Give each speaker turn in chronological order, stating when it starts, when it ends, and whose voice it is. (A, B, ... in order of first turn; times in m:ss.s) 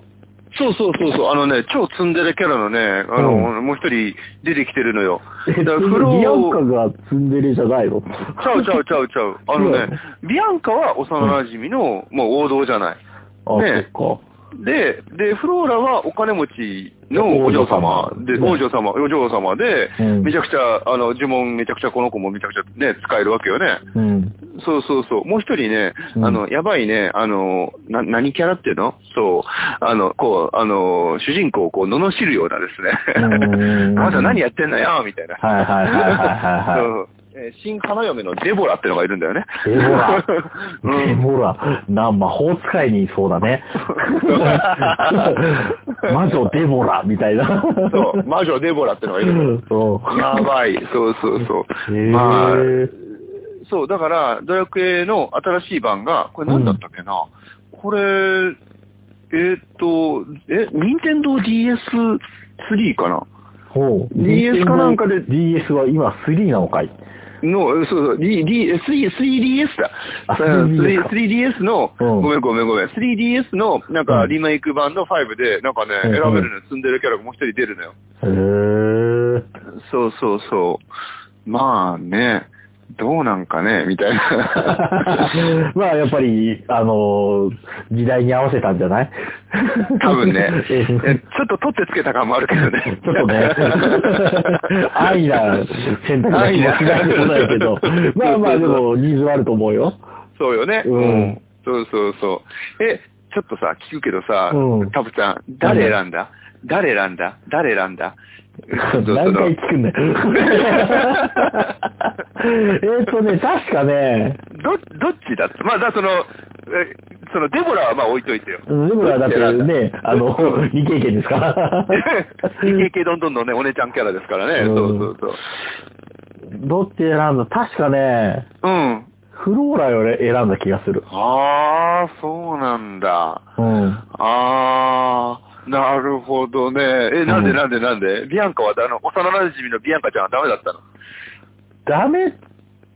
0:00.5-0:06.6 A
0:03.2-0:03.5 B
0:05.5-0:08.8 B
0:08.2-0:13.0 A
0:09.6-0:10.0 B
0:13.5-0:14.2 B
0:13.5-0:13.9 A
0:14.6-0:23.8 A
0:17.1-0:18.6 B
0:20.0-0:20.3 B
0:23.9-0:24.4 B
0:24.5-0:41.2 A
0:26.2-0:26.4 B
0:33.2-0:34.4 B
0:35.4-0:36.9 B
0:39.6-0:40.3 B
0:40.8-0:48.2 B
0:43.9-0:46.5 A
0:47.9-0:49.5 A
0:49.2-0:50.5 B
0:50.1-0:52.9 A
0:51.4-0:52.9 B
0:53.6-0:58.6 A
0:56.5-0:56.8 B
0:59.3-1:03.3 A
1:03.7-1:07.0 B
1:04.1-1:05.3 A
1:07.4-1:18.0 A
1:10.3-1:11.1 B
1:12.0-1:12.3 B
1:16.0-1:16.5 B
1:18.2-1:19.4 B
1:19.8-1:20.8 A
1:21.5-1:25.4 A
1:24.6-1:31.2 B
1:30.0-1:35.4 A
1:32.9-1:40.0 B
1:36.3-1:38.8 A
1:40.4-1:48.2 A
1:40.8-1:41.4 B
1:44.5-1:44.9 B
1:45.6-1:46.0 B
1:48.7-1:49.5 A
1:48.8-1:54.4 B
1:50.3-1:51.7 A
1:54.5-2:00.6 A
1:58.7-2:02.8 B
2:01.9-2:05.4 A
2:04.6-2:05.1 B
2:06.5-2:08.5 B
2:08.6-2:09.1 A
2:09.3-2:11.0 B
2:11.1-2:13.5 A
2:13.6-2:14.0 B
2:14.1-2:20.8 A
2:17.3-2:17.6 B
2:21.9-2:22.4 B